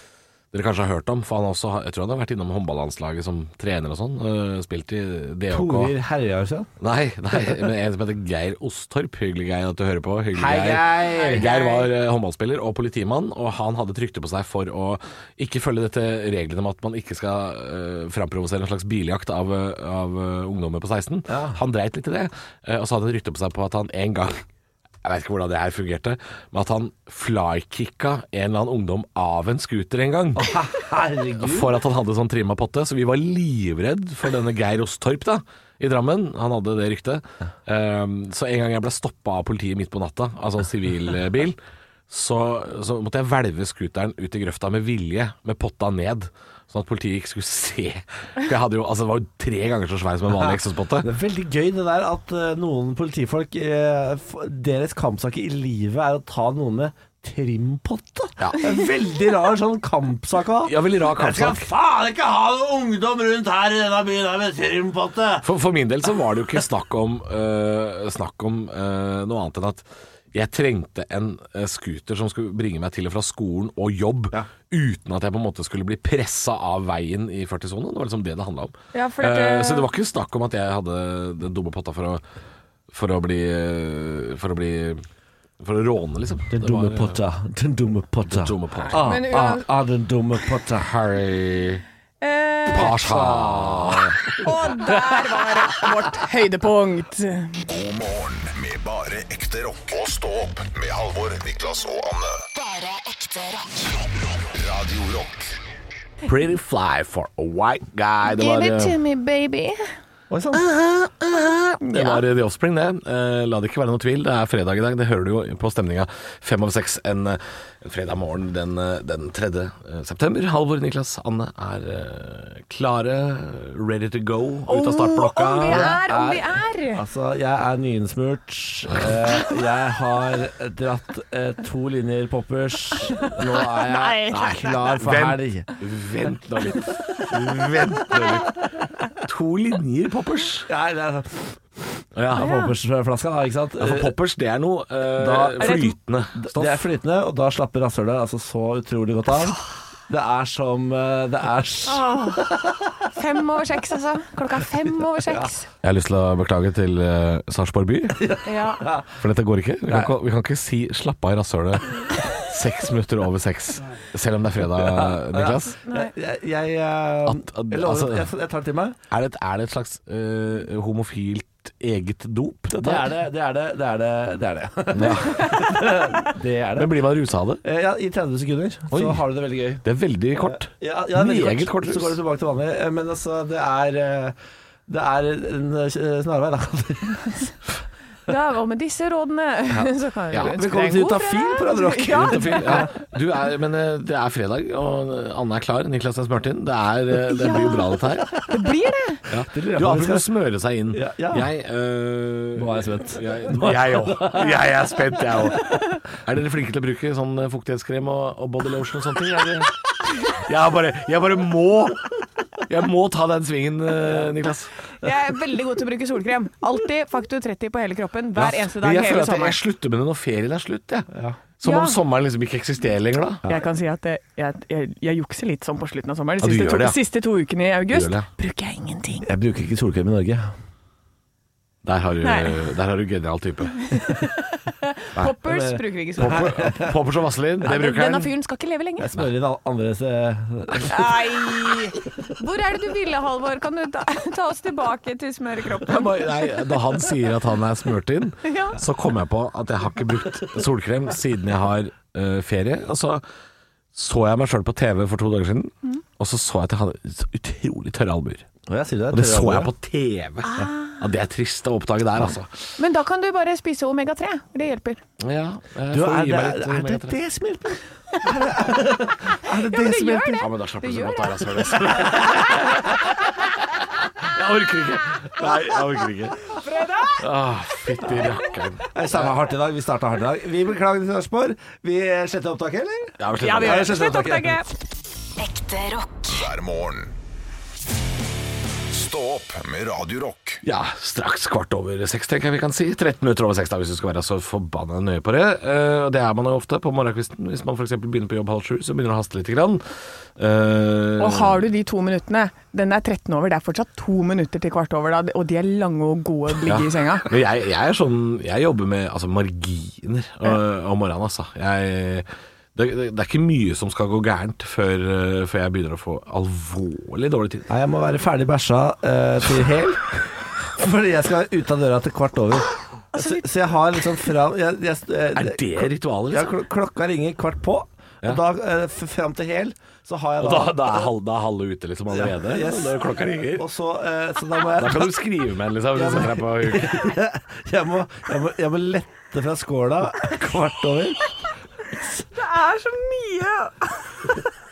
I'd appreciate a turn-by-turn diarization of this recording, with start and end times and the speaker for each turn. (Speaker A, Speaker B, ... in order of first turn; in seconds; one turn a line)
Speaker A: 0.5-5.9
Speaker B: 5.5-6.7
Speaker A: 6.8-24.4
Speaker B: 7.3-7.7
Speaker B: 10.3-11.5
Speaker C: 11.1-11.9
Speaker B: 21.3-21.6
Speaker A: 25.0-30.6
Speaker B: 30.4-31.8
Speaker A: 31.4-41.6
Speaker A: 42.1-51.1
Speaker B: 50.3-65.5
Speaker A: 60.6-61.7
Speaker A: 65.4-82.2
Speaker C: 78.9-79.9
Speaker A: 82.9-85.0
Speaker A: 85.6-87.2
Speaker B: 86.5-90.9
Speaker A: 88.2-89.0
Speaker C: 88.8-89.7
Speaker A: 90.8-91.8
Speaker C: 92.2-92.9
Speaker B: 92.7-94.2
Speaker A: 92.7-94.4
Speaker C: 94.4-97.7
Speaker D: 97.7-102.4
Speaker E: 102.5-104.0
Speaker D: 104.5-105.5
Speaker A: 106.2-109.0
Speaker C: 108.2-109.9
Speaker B: 110.3-110.6
Speaker A: 110.5-126.0
Speaker C: 111.8-112.2
Speaker C: 124.7-127.0
Speaker B: 125.7-135.7
Speaker C: 133.0-135.0
Speaker A: 134.3-140.7
Speaker B: 140.7-141.6
Speaker A: 142.2-142.6
Speaker B: 142.3-144.2
Speaker C: 142.4-142.7
Speaker A: 143.8-146.8
Speaker B: 145.1-152.8
Speaker C: 145.6-145.9
Speaker C: 151.9-155.7
Speaker A: 155.8-158.2
Speaker B: 158.2-159.2
Speaker C: 158.5-158.8
Speaker A: 159.2-165.8
Speaker B: 159.9-160.1
Speaker B: 164.8-169.0
Speaker C: 165.8-166.1
Speaker A: 167.3-168.3
Speaker A: 169.1-173.1
Speaker B: 172.7-177.0
Speaker A: 174.9-175.7
Speaker A: 176.8-177.6
Speaker B: 177.6-179.8
Speaker A: 178.9-182.2
Speaker B: 180.4-184.4
Speaker B: 184.9-187.5
Speaker C: 188.3-192.9
Speaker B: 190.4-192.9
Speaker A: 192.1-198.5
Speaker C: 197.3-199.2
Speaker A: 199.3-212.1
Speaker B: 199.5-200.3
Speaker B: 200.9-201.5
Speaker B: 202.6-204.7
Speaker A: 212.6-214.7
Speaker C: 215.0-219.6
Speaker A: 218.4-223.4
Speaker B: 221.1-221.4
Speaker C: 221.6-222.0
Speaker C: 223.4-229.3
Speaker A: 226.4-227.0
Speaker A: 227.9-228.3
Speaker B: 229.2-230.5
Speaker A: 231.8-233.9
Speaker C: 232.2-232.5
Speaker C: 233.9-236.5
Speaker B: 235.2-236.9
Speaker A: 236.2-238.3
Speaker C: 237.6-239.1
Speaker B: 239.0-241.1
Speaker C: 240.8-246.9
Speaker A: 245.8-253.2
Speaker C: 248.4-248.8
Speaker A: 253.9-258.5
Speaker B: 258.7-259.7
Speaker A: 259.1-262.7
Speaker C: 260.5-261.0
Speaker C: 262.8-265.0
Speaker A: 265.2-267.1
Speaker B: 265.9-270.5
Speaker C: 269.5-272.8
Speaker A: 270.4-273.2
Speaker A: 274.2-276.5
Speaker C: 276.5-277.2
Speaker A: 277.2-279.4
Speaker C: 278.1-278.3
Speaker B: 278.9-284.6
Speaker A: 283.2-284.1
Speaker C: 283.4-284.7
Speaker E: 285.4-286.5
Speaker D: 286.3-287.1
Speaker D: 288.9-290.6
Speaker A: 290.6-299.8
Speaker A: 300.4-301.6
Speaker C: 301.2-307.3
Speaker A: 306.6-317.7
Speaker B: 317.7-331.1
Speaker C: 323.1-324.2
Speaker A: 325.4-326.6
Speaker A: 330.4-333.7
Speaker B: 332.1-335.2
Speaker A: 334.8-337.1
Speaker B: 335.9-341.3
Speaker C: 342.3-344.5